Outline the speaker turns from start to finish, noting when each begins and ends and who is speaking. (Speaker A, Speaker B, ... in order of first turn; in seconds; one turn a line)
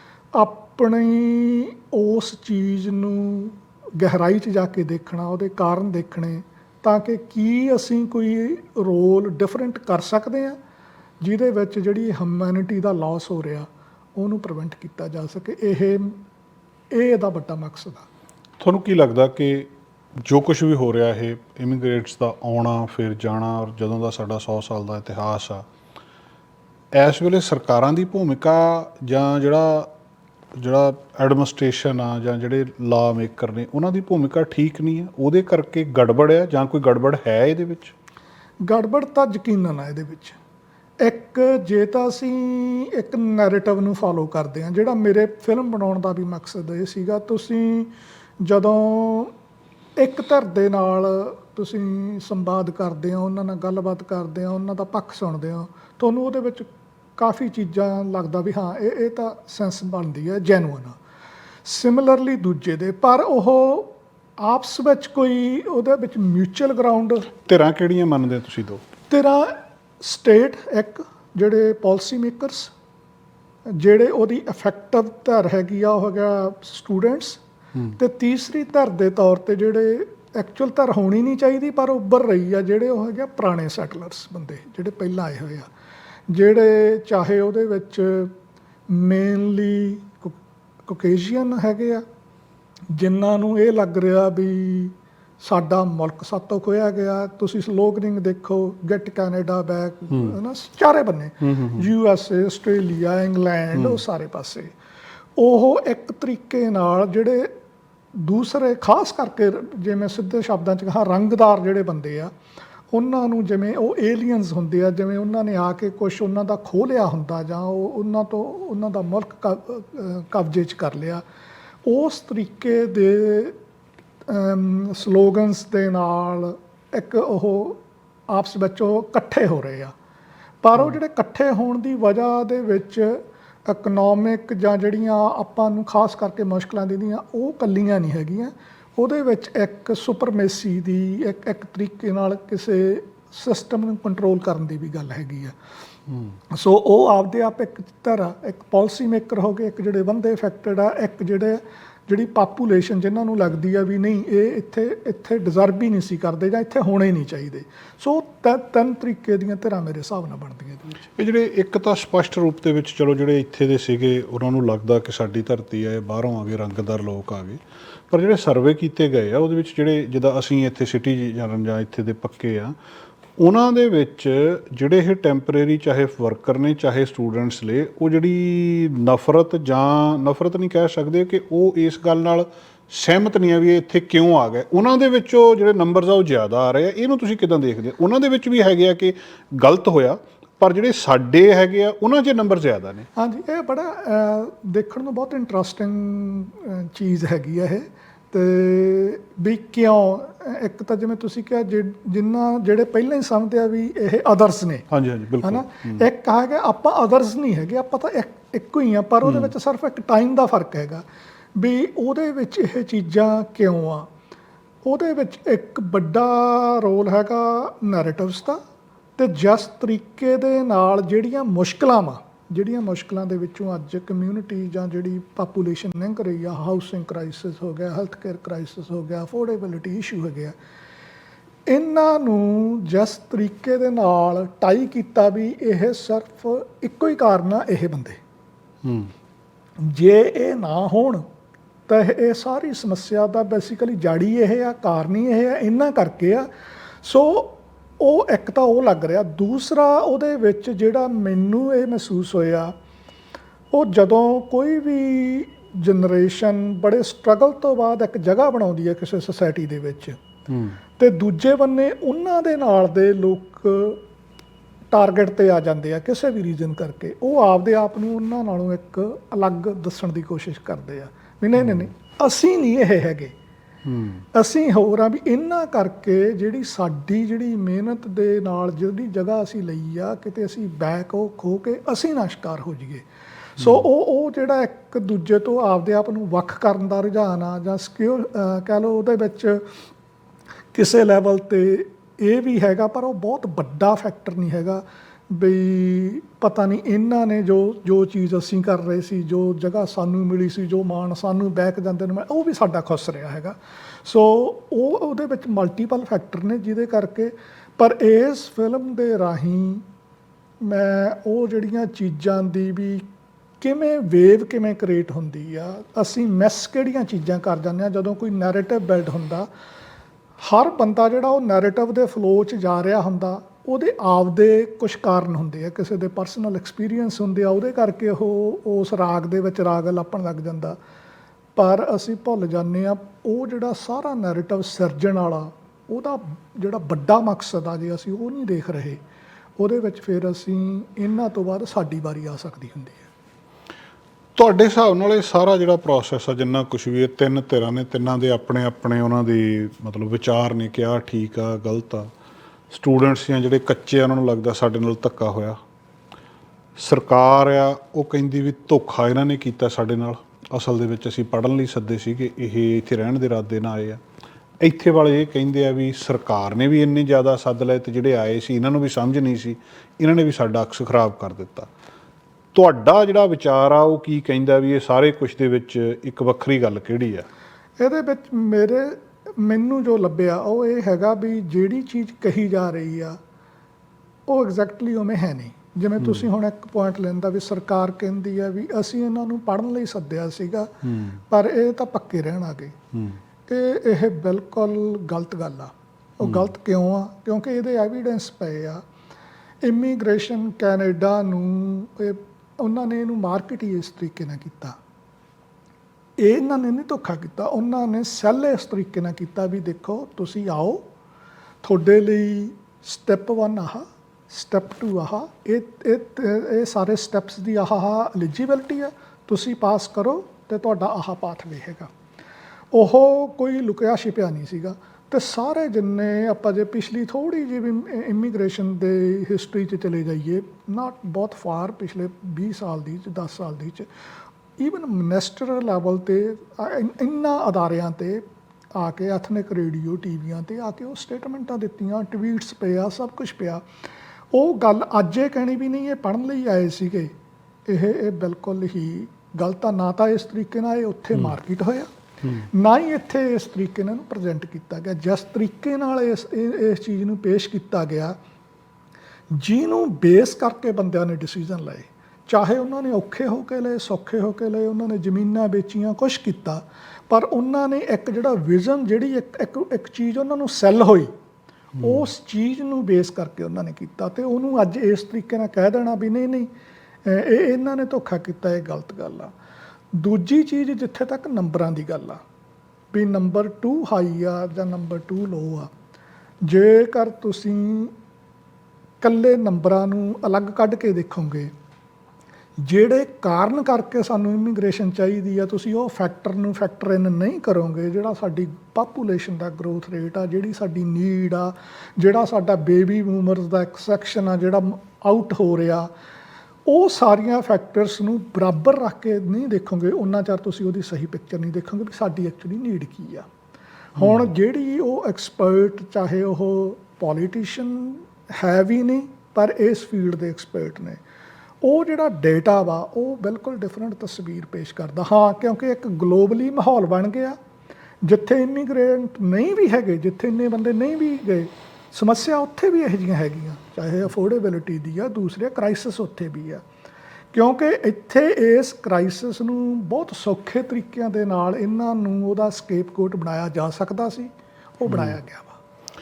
Speaker A: 0.4-10.6
Speaker A: 11.2-16.2
Speaker A: 16.9-18.1
Speaker B: 18.6-19.7
Speaker B: 20.2-25.6
Speaker B: 27.0-29.9
Speaker B: 30.6-37.9
Speaker A: 38.6-40.4
Speaker A: 41.0-47.9
Speaker A: 48.4-49.3
Speaker A: 50.0-61.0
Speaker A: 61.6-67.3
Speaker B: 67.4-68.8
Speaker A: 69.1-72.7
Speaker A: 73.7-77.4
Speaker A: 78.0-85.7
Speaker A: 86.3-88.3
Speaker A: 88.9-90.4
Speaker A: 90.9-92.0
Speaker A: 92.9-104.7
Speaker B: 101.4-101.9
Speaker B: 103.8-104.0
Speaker A: 105.4-107.5
Speaker A: 108.2-112.3
Speaker A: 112.9-121.2
Speaker A: 121.9-123.6
Speaker A: 124.3-129.9
Speaker A: 130.6-145.5
Speaker A: 146.5-161.0
Speaker B: 161.2-172.8
Speaker B: 173.4-193.1
Speaker A: 193.2-204.9
Speaker B: 204.9-206.1
Speaker A: 205.4-211.0
Speaker B: 209.2-209.5
Speaker A: 211.6-214.1
Speaker A: 214.9-218.6
Speaker A: 219.2-230.5
Speaker A: 231.7-238.2
Speaker B: 238.8-239.1
Speaker A: 239.8-241.2
Speaker A: 241.9-246.5
Speaker A: 247.0-252.7
Speaker A: 253.7-260.2
Speaker B: 260.5-260.8
Speaker A: 261.0-264.0
Speaker A: 264.9-273.3
Speaker B: 271.6-271.9
Speaker B: 273.9-274.2
Speaker A: 274.4-283.1
Speaker A: 283.6-289.7
Speaker B: 283.6-283.9
Speaker A: 290.7-309.9
Speaker A: 310.6-313.1
Speaker A: 313.6-319.5
Speaker A: 320.4-330.8
Speaker A: 331.6-339.0
Speaker A: 339.6-343.1
Speaker B: 344.4-352.1
Speaker B: 352.7-355.6
Speaker B: 356.8-364.0
Speaker B: 364.6-371.7
Speaker B: 372.5-377.3
Speaker A: 377.8-383.2
Speaker A: 384.3-390.7
Speaker B: 386.0-386.3
Speaker B: 390.9-391.2
Speaker A: 391.3-392.8
Speaker A: 393.5-398.8
Speaker B: 396.2-396.5
Speaker A: 399.6-404.8
Speaker A: 406.2-410.8
Speaker A: 411.6-421.9
Speaker A: 422.7-433.9
Speaker A: 434.6-438.2
Speaker A: 438.8-443.6
Speaker A: 444.3-447.1
Speaker A: 447.7-451.9
Speaker A: 452.5-458.1
Speaker A: 459.3-471.1
Speaker B: 471.8-472.0
Speaker A: 471.8-476.5
Speaker A: 477.1-479.3
Speaker A: 479.9-482.2
Speaker A: 482.9-485.7
Speaker A: 486.4-487.9
Speaker A: 489.0-491.5
Speaker A: 492.6-505.9
Speaker A: 506.7-513.3
Speaker A: 514.0-521.0
Speaker B: 514.0-514.3
Speaker A: 521.6-527.4
Speaker A: 528.0-536.6
Speaker A: 537.3-545.6
Speaker B: 544.9-545.2